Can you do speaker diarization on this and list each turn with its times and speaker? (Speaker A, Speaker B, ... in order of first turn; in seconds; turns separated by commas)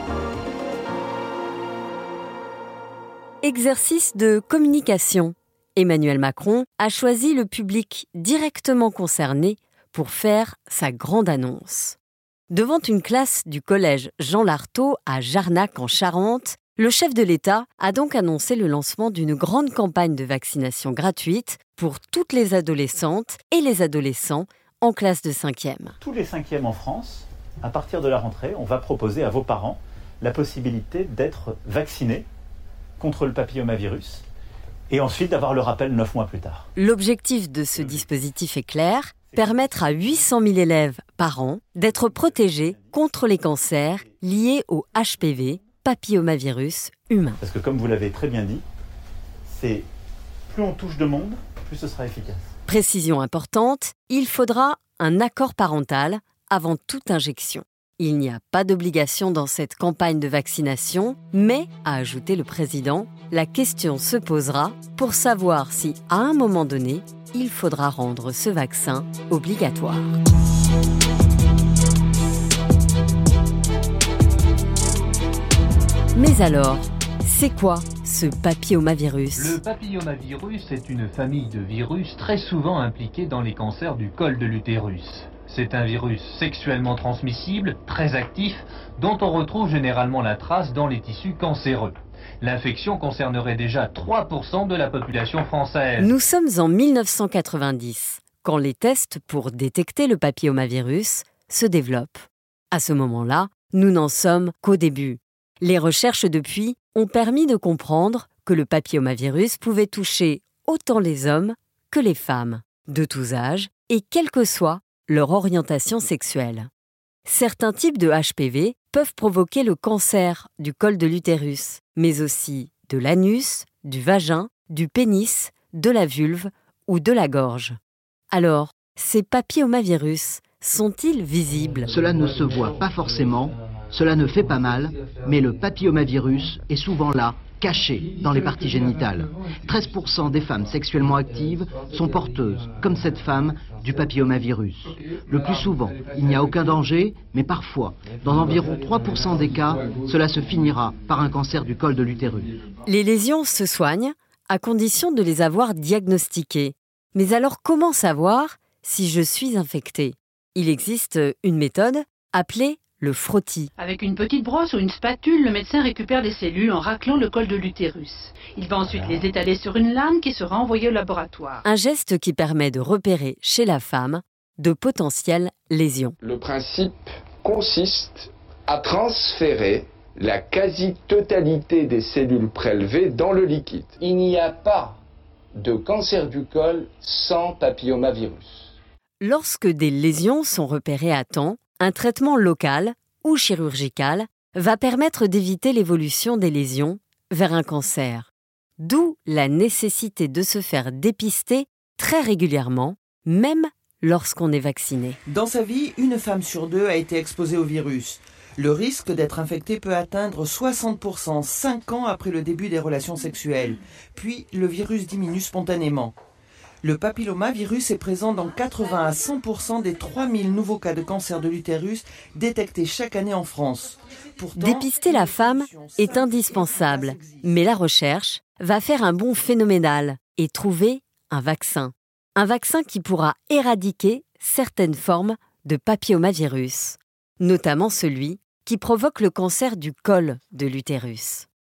Speaker A: 3.4-11.9, Speaker A: 12.5-25.9, Speaker B: 26.1-28.0, Speaker B: 28.7-29.1, Speaker B: 29.6-30.3, Speaker B: 30.9-32.2, Speaker B: 33.0-34.2, Speaker B: 34.9-35.2, Speaker B: 36.0-36.6, Speaker A: 36.8-47.4, Speaker B: 47.6-47.9, Speaker B: 49.5-49.8, Speaker B: 50.5-52.0, Speaker A: 52.7-70.1, Speaker A: 76.2-79.6, Speaker C: 79.3-96.1, Speaker A: 96.0-116.7, Speaker A: 117.2-127.8, Speaker A: 128.3-131.9, Speaker D: 131.9-152.6, Speaker A: 152.8-163.7, Speaker E: 163.8-171.6, Speaker A: 171.6-176.2, Speaker F: 176.2-185.0, Speaker F: 185.6-188.7, Speaker A: 189.2-205.2, Speaker G: 205.3-216.1, Speaker G: 216.8-227.5, Speaker A: 224.6-241.5